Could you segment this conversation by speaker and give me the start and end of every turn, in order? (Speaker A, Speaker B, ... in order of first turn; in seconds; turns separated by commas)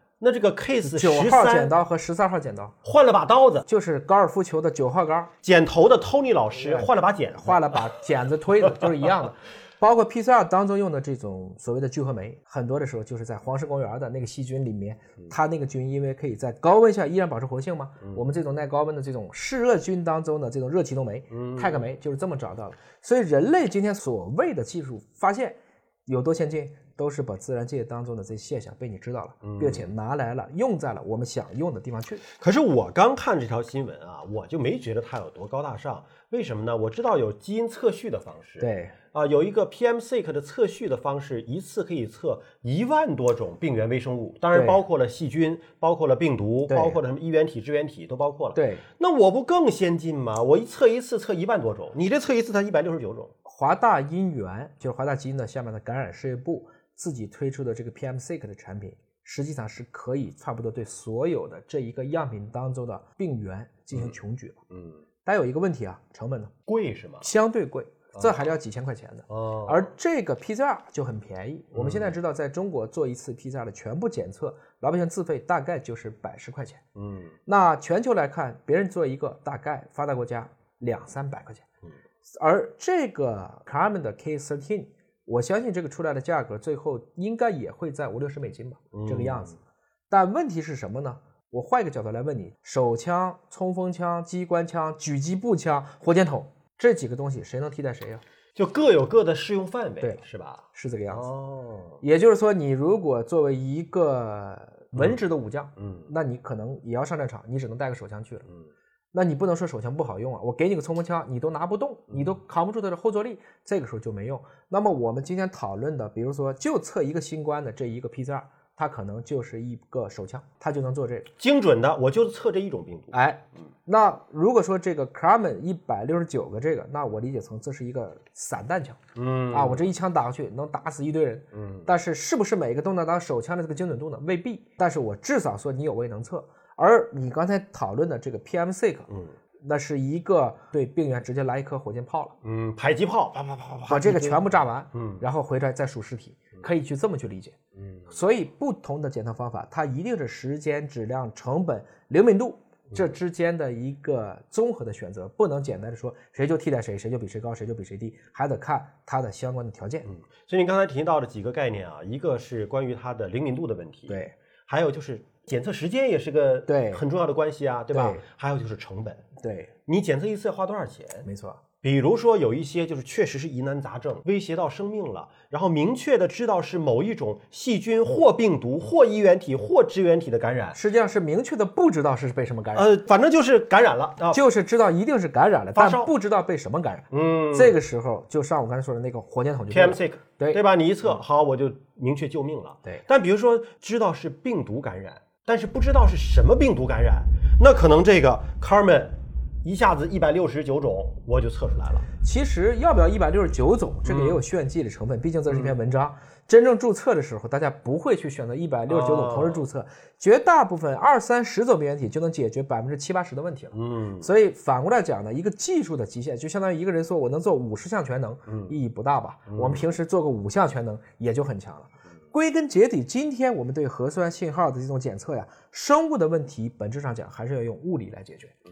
Speaker A: 0.2-1.7, Speaker B: 0.8-2.8, Speaker A: 2.8-3.7, Speaker B: 3.7-5.3, Speaker A: 5.4-7.9, Speaker B: 6.6-6.9, Speaker B: 7.4-32.2, Speaker A: 21.3-21.8, Speaker A: 29.4-29.9, Speaker A: 32.4-53.3, Speaker B: 38.6-39.0, Speaker B: 44.5-44.8, Speaker B: 46.7-47.0, Speaker B: 48.5-48.9, Speaker B: 53.5-64.6, Speaker A: 64.7-65.0, Speaker B: 65.2-66.5, Speaker A: 66.7-67.3, Speaker B: 67.2-76.8, Speaker A: 69.3-69.9, Speaker A: 71.7-72.2, Speaker A: 77.0-77.3, Speaker B: 77.5-81.7, Speaker B: 82.4-89.6, Speaker A: 88.9-89.6, Speaker B: 90.1-98.2, Speaker A: 98.5-102.0, Speaker B: 100.0-101.3, Speaker B: 102.0-108.5, Speaker A: 105.8-106.1, Speaker B: 109.1-121.3, Speaker A: 121.4-123.2, Speaker B: 123.1-129.0, Speaker A: 129.2-129.9, Speaker B: 129.5-139.1, Speaker A: 131.5-131.9, Speaker A: 139.1-139.3, Speaker B: 139.6-142.3, Speaker A: 142.4-145.2, Speaker B: 143.9-147.6, Speaker A: 147.8-148.1, Speaker B: 148.1-160.1, Speaker A: 160.1-169.2, Speaker B: 164.1-164.3, Speaker B: 166.7-167.0, Speaker B: 167.9-168.2, Speaker B: 169.4-169.7, Speaker A: 169.9-171.3, Speaker B: 171.2-171.6, Speaker A: 171.8-180.8, Speaker B: 180.7-182.9, Speaker A: 182.8-184.4, Speaker B: 184.3-191.2, Speaker A: 185.7-186.1, Speaker A: 187.1-187.8, Speaker A: 189.7-202.1, Speaker B: 202.2-228.6, Speaker A: 204.1-204.4, Speaker A: 205.5-205.8, Speaker A: 208.9-209.7, Speaker A: 213.7-214.3, Speaker A: 218.5-218.8, Speaker A: 219.5-219.9